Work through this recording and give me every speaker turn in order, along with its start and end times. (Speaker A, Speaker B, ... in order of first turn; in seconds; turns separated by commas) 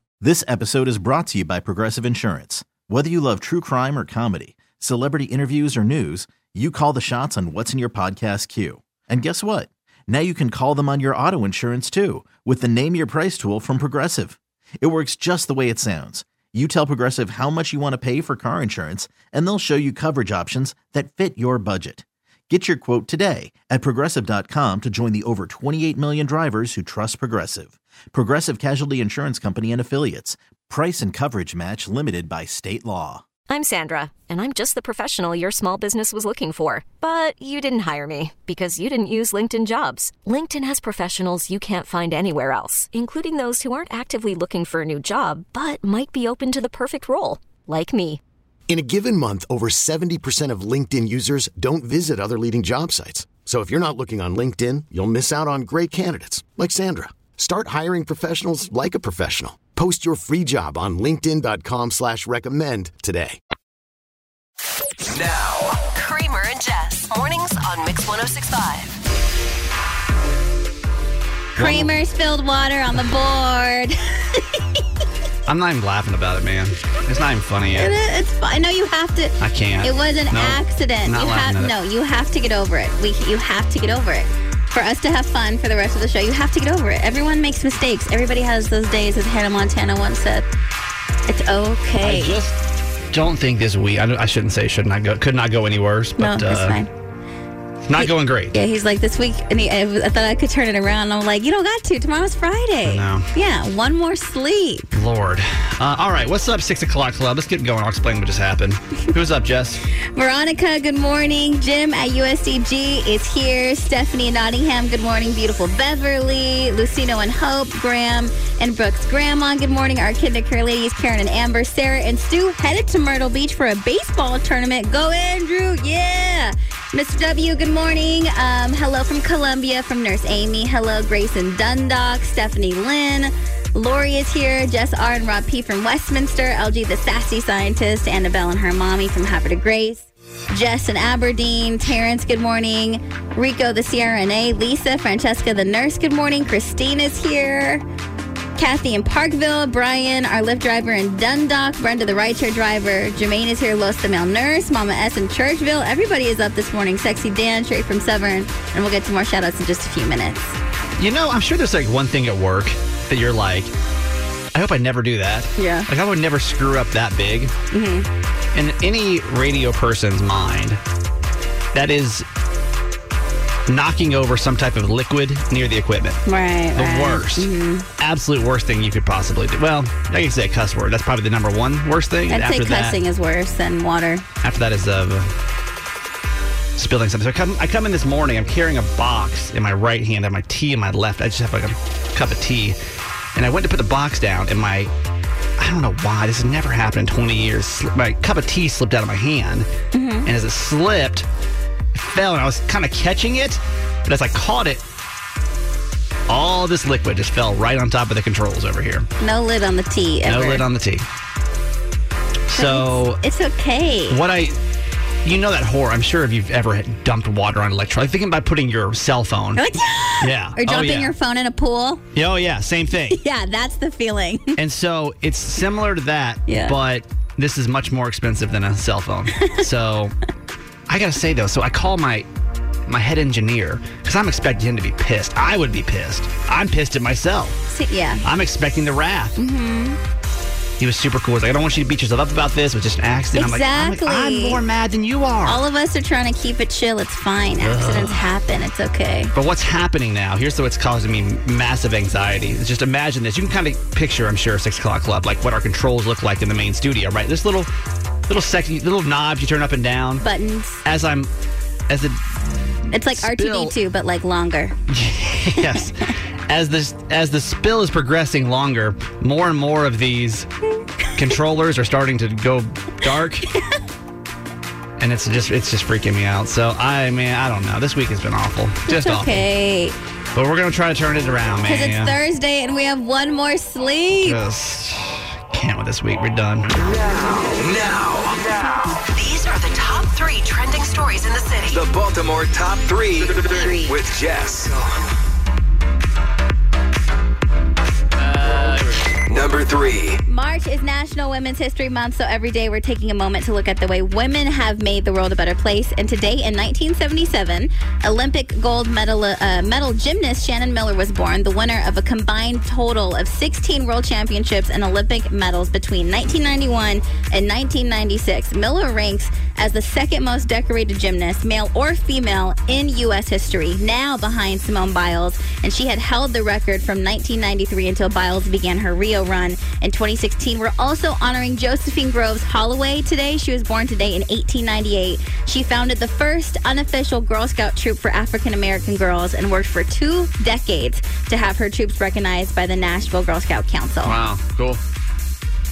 Speaker A: 0.2-33.2, Speaker B: 33.5-48.2, Speaker C: 48.7-63.4, Speaker D: 65.1-65.8, Speaker E: 65.9-69.0, Speaker F: 71.5-71.9, Speaker G: 71.5-74.8, Speaker F: 75.5-77.9, Speaker G: 77.7-90.5, Speaker F: 79.4-81.7, Speaker G: 91.3-92.4, Speaker F: 92.0-92.6, Speaker F: 93.1-96.8, Speaker G: 96.2-96.9, Speaker F: 97.9-98.5, Speaker G: 98.0-104.9, Speaker F: 102.8-103.3, Speaker F: 104.9-109.8, Speaker G: 110.1-147.8, Speaker G: 148.6-160.6, Speaker F: 161.0-163.7, Speaker F: 164.5-167.5, Speaker G: 165.6-165.9, Speaker G: 167.7-168.1, Speaker F: 168.5-170.8, Speaker F: 171.7-172.2, Speaker F: 173.7-176.2, Speaker G: 176.2-177.8, Speaker F: 176.7-183.0, Speaker G: 182.3-184.2, Speaker F: 184.4-185.3, Speaker F: 186.8-192.8, Speaker F: 193.3-194.9, Speaker F: 195.6-199.7, Speaker G: 199.9-200.3, Speaker F: 200.2-201.2, Speaker F: 201.9-204.8, Speaker F: 206.3-209.1, Speaker G: 209.2-210.6, Speaker F: 210.2-211.1, Speaker F: 212.5-213.2, Speaker G: 212.5-214.2, Speaker F: 214.1-214.6, Speaker F: 215.2-219.6, Speaker G: 219.6-222.0, Speaker F: 220.2-221.1, Speaker F: 222.1-223.2, Speaker G: 223.1-224.6, Speaker F: 224.6-230.1, Speaker G: 226.5-226.8, Speaker F: 230.9-232.3, Speaker F: 232.9-237.6, Speaker G: 237.7-238.2, Speaker F: 238.2-239.4, Speaker G: 239.4-240.0, Speaker F: 240.8-245.6, Speaker G: 243.3-244.6, Speaker G: 245.4-249.3, Speaker F: 247.6-248.3, Speaker F: 249.3-257.7, Speaker F: 258.3-260.2, Speaker G: 260.2-260.8, Speaker F: 260.8-261.3, Speaker F: 261.9-262.2, Speaker G: 262.9-264.7, Speaker F: 263.1-263.7, Speaker F: 264.9-270.5, Speaker F: 271.1-273.5, Speaker F: 275.0-279.4, Speaker G: 278.9-279.9, Speaker F: 280.3-282.2, Speaker G: 281.6-284.4, Speaker F: 284.2-286.7, Speaker D: 286.7-289.0, Speaker E: 289.1-291.8, Speaker D: 291.7-294.8, Speaker G: 293.5-293.9, Speaker F: 298.2-299.1, Speaker D: 299.2-300.2, Speaker G: 300.3-344.2, Speaker F: 344.0-344.8